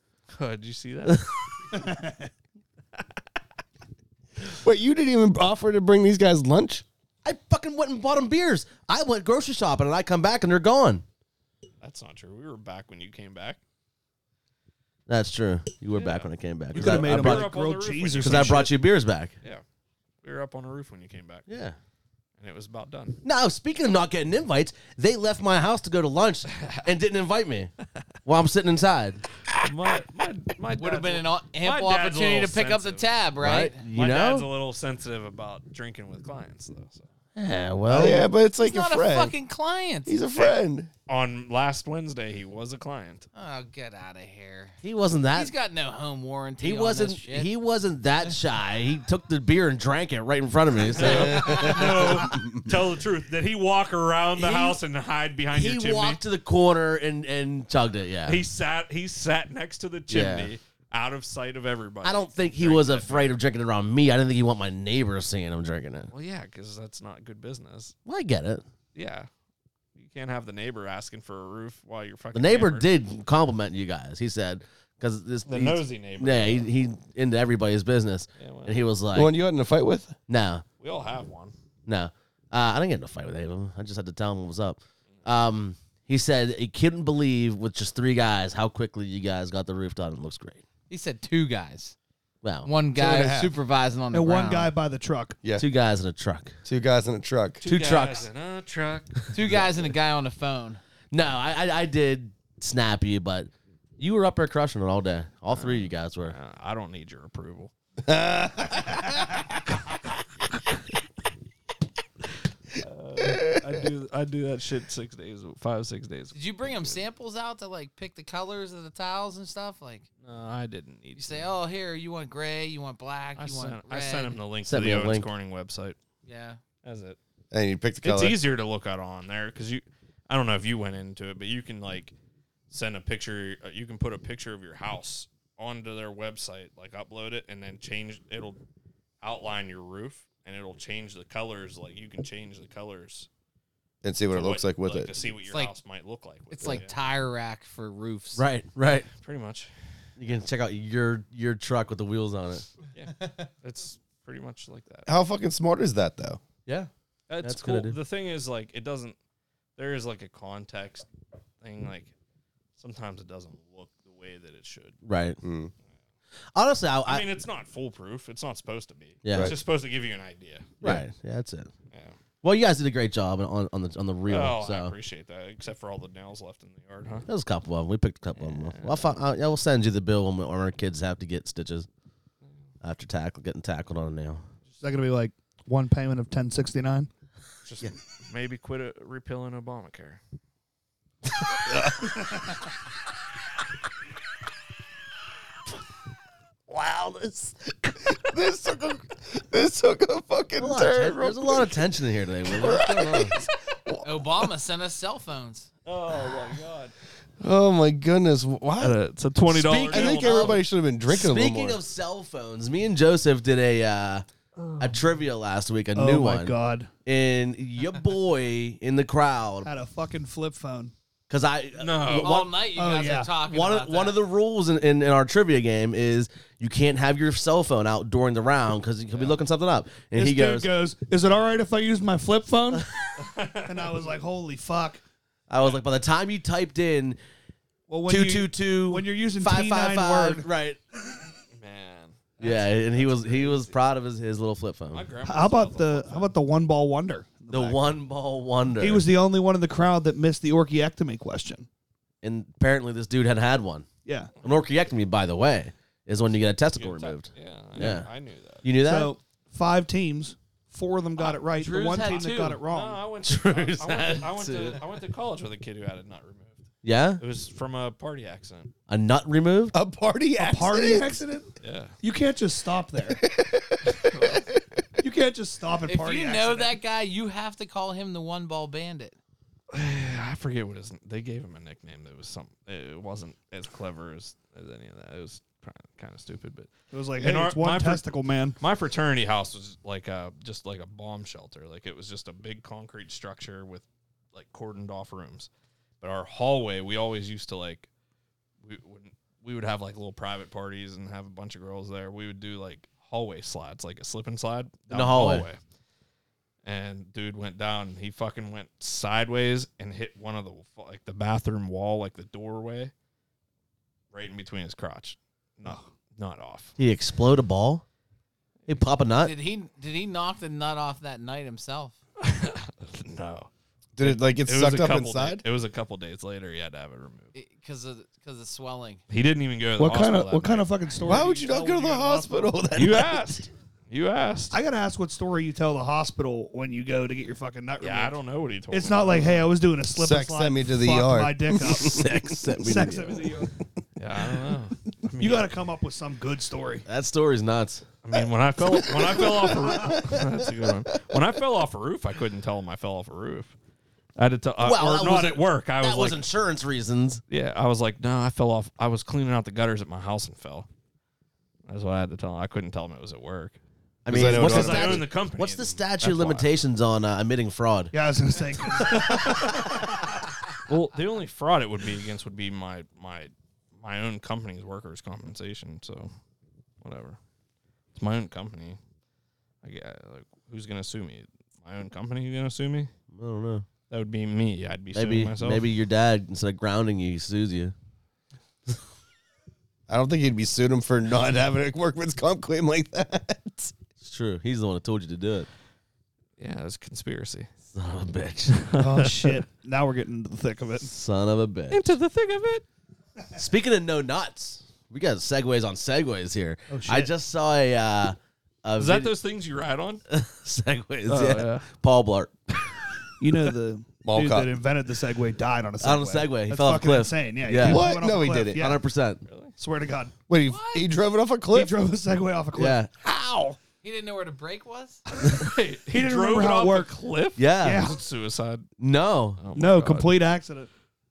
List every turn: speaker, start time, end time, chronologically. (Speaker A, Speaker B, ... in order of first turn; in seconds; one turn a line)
Speaker A: 0.3-1.3
Speaker B: 1.7-2.3
Speaker C: 4.4-6.8
Speaker D: 7.2-11.0
Speaker A: 11.8-13.6
Speaker D: 15.1-17.5
Speaker A: 15.9-18.7
Speaker B: 16.7-18.7
Speaker D: 18.2-19.3
Speaker A: 20.2-21.4
Speaker D: 21.5-21.8
Speaker A: 22.4-23.2
Speaker D: 23.2-27.7
Speaker A: 26.5-26.9
Speaker D: 28.2-29.2
Speaker A: 29.6-33.1
Speaker E: 30.7-33.8
Speaker D: 33.4-34.5
Speaker A: 33.9-37.0
Speaker D: 37.4-38.3
Speaker C: 37.9-39.3
Speaker E: 37.9-40.1
Speaker C: 40.1-40.9
Speaker A: 41.1-43.3
Speaker E: 43.3-44.8
Speaker D: 44.8-45.5
Speaker E: 45.3-47.5
Speaker D: 46.6-52.4
Speaker A: 50.9-56.2
Speaker C: 51.1-52.6
Speaker D: 54.4-54.8
Speaker D: 55.5-58.4
Speaker A: 58.2-63.4
Speaker D: 60.1-60.5
Speaker D: 62.0-66.1
Speaker A: 66.1-68.0
Speaker D: 68.0-68.6
Speaker A: 68.9-69.3
Speaker A: 70.0-72.9
Speaker D: 72.3-79.3
Speaker A: 75.5-76.7
Speaker A: 78.4-78.8
Speaker C: 79.1-80.2
Speaker D: 80.3-80.6
Speaker A: 80.8-81.5
Speaker D: 81.8-90.6
Speaker E: 90.9-91.9
Speaker D: 92.4-92.7
Speaker E: 92.6-94.7
Speaker C: 92.9-93.5
Speaker B: 94.1-95.4
Speaker D: 95.5-96.5
Speaker C: 96.6-97.6
Speaker A: 97.6-99.3
Speaker D: 97.6-98.2
Speaker E: 99.3-100.8
Speaker D: 101.1-106.3
Speaker A: 105.5-107.7
Speaker C: 108.0-109.3
Speaker A: 112.8-117.0
Speaker C: 113.2-113.8
Speaker E: 116.3-120.0
Speaker A: 120.2-121.5
Speaker E: 121.1-124.4
Speaker A: 123.4-126.0
Speaker D: 124.6-125.3
Speaker E: 126.2-126.6
Speaker A: 126.8-127.2
Speaker C: 127.5-128.4
Speaker A: 128.0-132.1
Speaker A: 132.7-138.6
Speaker A: 139.2-143.3
Speaker C: 144.0-145.1
Speaker A: 144.3-146.9
Speaker E: 146.5-148.4
Speaker D: 148.3-149.1
Speaker A: 149.2-149.7
Speaker D: 150.2-152.7
Speaker A: 152.9-155.1
Speaker C: 155.1-156.4
Speaker A: 157.3-159.2
Speaker D: 157.4-157.9
Speaker A: 159.8-161.1
Speaker A: 161.6-162.1
Speaker A: 162.8-165.0
Speaker D: 165.0-165.4
Speaker C: 165.4-165.7
Speaker D: 166.5-167.2
Speaker A: 167.1-170.8
Speaker D: 169.2-169.5
Speaker D: 170.8-171.7
Speaker D: 172.4-174.9
Speaker A: 174.3-177.3
Speaker D: 177.3-181.9
Speaker A: 178.3-179.1
Speaker D: 182.8-184.4
Speaker B: 184.8-187.1
Speaker A: 187.6-190.2
Speaker C: 196.7-201.8
Speaker D: 200.6-203.3
Speaker C: 202.5-204.4
Speaker E: 204.0-205.7
Speaker A: 205.8-206.9
Speaker C: 207.4-209.0
Speaker A: 208.8-210.6
Speaker D: 209.5-214.2
Speaker C: 209.8-211.8
Speaker D: 214.8-216.5
Speaker B: 215.9-216.9
Speaker D: 217.1-219.7
Speaker B: 219.6-220.9
Speaker D: 221.3-222.6
Speaker A: 221.8-222.3
Speaker E: 222.2-224.2
Speaker B: 222.7-223.3
Speaker D: 223.4-230.7
Speaker A: 229.1-229.4
Speaker B: 230.1-235.0
Speaker A: 233.2-234.1
Speaker D: 235.5-237.2
Speaker B: 237.9-240.5
Speaker D: 238.1-240.8
Speaker A: 241.5-243.7
Speaker D: 242.4-245.1
Speaker A: 244.9-246.3
Speaker B: 245.2-247.9
Speaker D: 247.5-249.1
Speaker B: 248.8-251.7
Speaker D: 252.2-253.8
Speaker B: 254.1-254.3
Speaker D: 254.4-258.1
Speaker A: 256.8-258.6
Speaker D: 258.6-259.1
Speaker B: 258.8-263.0
Speaker E: 261.2-262.6
Speaker D: 261.9-262.4
Speaker A: 262.1-268.7
Speaker D: 263.2-264.8
Speaker D: 266.8-267.2
Speaker D: 268.9-269.7
Speaker C: 269.7-271.1
Speaker B: 270.4-271.5
Speaker A: 271.6-271.9
Speaker B: 272.0-273.2
Speaker C: 273.1-274.6
Speaker A: 273.9-274.4
Speaker B: 275.0-276.8
Speaker E: 275.9-279.2
Speaker A: 279.7-295.5
Speaker B: 286.9-288.6
Speaker A: 296.0-297.9
Speaker A: 298.6-305.6
Speaker D: 304.9-305.5
Speaker A: 306.6-312.9
Speaker A: 314.1-316.8
Speaker D: 316.8-317.8
Speaker D: 318.7-319.3
Speaker E: 319.2-321.9
Speaker A: 322.2-327.3
Speaker C: 323.9-325.4
Speaker E: 327.3-329.0
Speaker A: 329.1-331.3
Speaker B: 329.8-332.5
Speaker C: 331.0-333.3
Speaker A: 332.7-334.6
Speaker B: 334.5-338.1
Speaker A: 337.8-339.5
Speaker B: 338.7-343.5
Speaker C: 339.9-342.4
Speaker D: 341.6-343.4
Speaker A: 344.0-345.5
Speaker B: 345.2-346.9
Speaker D: 346.9-347.9
Speaker A: 348.0-353.5
Speaker C: 348.6-350.6
Speaker A: 354.2-356.2
Speaker D: 354.6-357.2
Speaker A: 357.3-360.7
Speaker A: 361.7-363.6
Speaker D: 364.0-367.9
Speaker C: 364.1-365.0
Speaker A: 364.2-366.5
Speaker B: 367.9-369.8
Speaker A: 368.9-369.9
Speaker A: 370.6-376.1
Speaker A: 376.8-377.2
Speaker A: 377.9-378.8
Speaker A: 379.6-382.9
Speaker D: 383.1-383.6
Speaker A: 383.9-385.7
Speaker D: 384.9-387.7
Speaker C: 389.9-393.7
Speaker D: 394.0-395.5
Speaker A: 396.4-397.5
Speaker D: 397.7-398.6
Speaker A: 398.5-399.4
Speaker B: 398.8-400.9
Speaker D: 400.8-401.8
Speaker A: 401.7-402.6
Speaker D: 403.3-409.1
Speaker B: 406.7-407.1
Speaker A: 408.8-410.0
Speaker D: 410.1-412.8
Speaker A: 411.1-411.7
Speaker B: 413.2-418.8
Speaker C: 414.0-414.6
Speaker D: 415.8-417.9
Speaker C: 417.6-418.7
Speaker D: 418.5-419.2
Speaker A: 419.3-419.6
Speaker B: 419.6-420.1
Speaker C: 420.3-421.7
Speaker E: 420.4-420.9
Speaker B: 421.5-423.6
Speaker D: 422.5-422.9
Speaker E: 423.8-425.0
Speaker B: 425.2-426.9
Speaker A: 425.2-428.7
Speaker D: 427.4-427.9
Speaker B: 427.6-428.0
Speaker D: 428.8-429.4
Speaker A: 429.4-430.1
Speaker B: 429.5-430.7